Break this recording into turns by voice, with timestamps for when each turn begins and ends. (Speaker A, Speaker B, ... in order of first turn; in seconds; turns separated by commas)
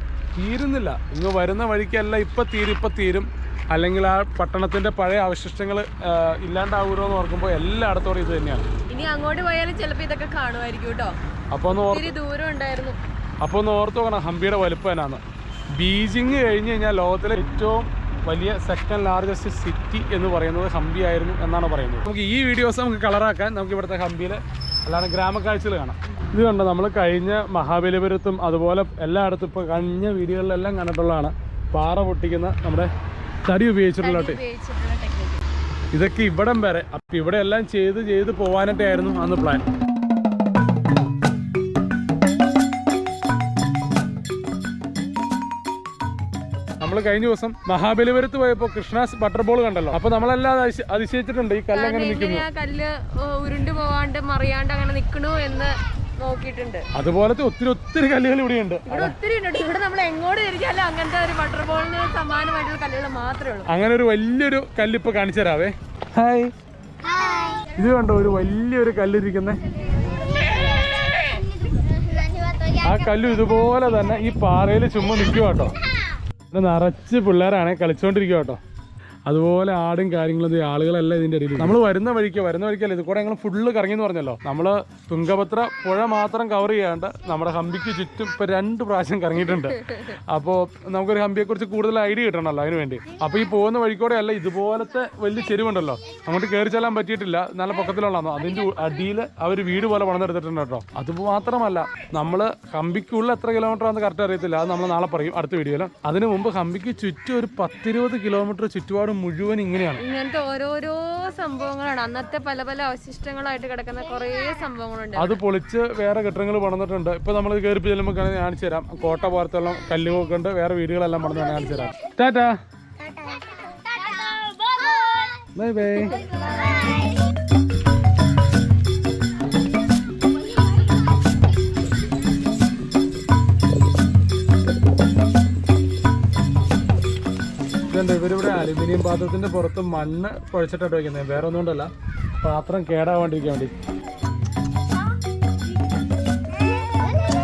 Speaker A: 0.4-8.7, Speaker B: 8.9-13.0, Speaker A: 11.5-12.1, Speaker A: 13.4-15.2, Speaker A: 15.7-32.9, Speaker A: 33.4-34.4, Speaker B: 34.0-35.4, Speaker A: 35.9-39.6, Speaker A: 46.8-52.5, Speaker B: 51.7-56.8, Speaker A: 56.9-59.2, Speaker B: 58.9-63.7, Speaker A: 63.7-66.5, Speaker A: 67.7-69.6, Speaker A: 72.7-75.8, Speaker A: 76.5-78.6, Speaker A: 79.3-110.0, Speaker B: 110.0-115.4, Speaker A: 115.2-122.5, Speaker A: 125.5-126.3, Speaker A: 137.9-143.7